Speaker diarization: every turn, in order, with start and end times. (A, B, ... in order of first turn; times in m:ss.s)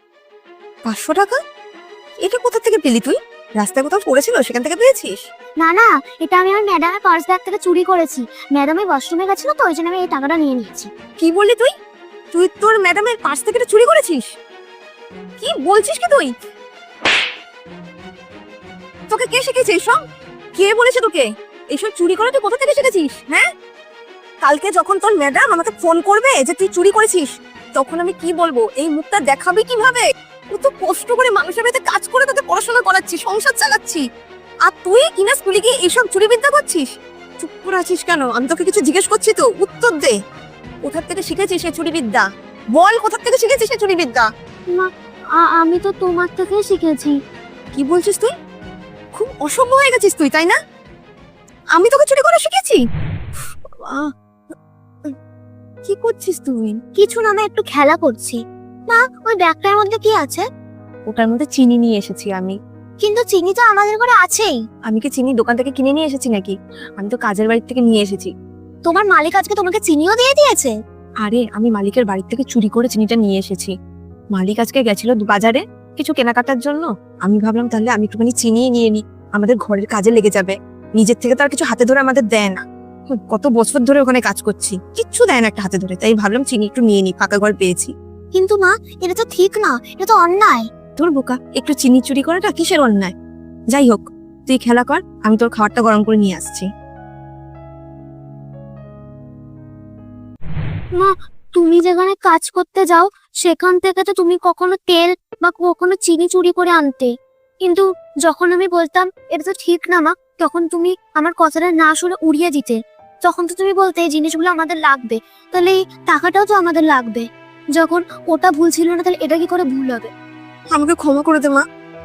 0:00.8-0:01.4 A
0:02.2-0:05.2 A
0:05.6-0:10.9 B
0:11.2-0:11.7 A
0:12.3-0:14.3 A
0:15.4-0:16.3 A
0:19.1-0:20.0 A
0:20.5-0:23.5 A
0:24.4-0:34.0 A
0:34.6-0:36.9 A
0:37.4-0:40.2 A
0:40.8-0:44.3 A
0:44.7-0:47.2 B
0:47.7-0:48.3 A
0:49.1-0:50.6 A
0:51.7-0:52.8 A
0:53.7-0:54.1 A
0:55.8-0:56.8 A
0:57.0-1:00.4 B
1:01.1-1:02.5 A
1:03.0-1:04.6 B
1:04.9-1:08.3 A
1:08.8-1:10.8 B
1:11.2-1:13.7 A
1:14.3-1:27.9 A
1:28.3-1:30.6 B
1:31.0-1:33.1 A
1:33.7-1:36.7 A
1:41.0-2:00.1 B
2:00.7-2:01.6 A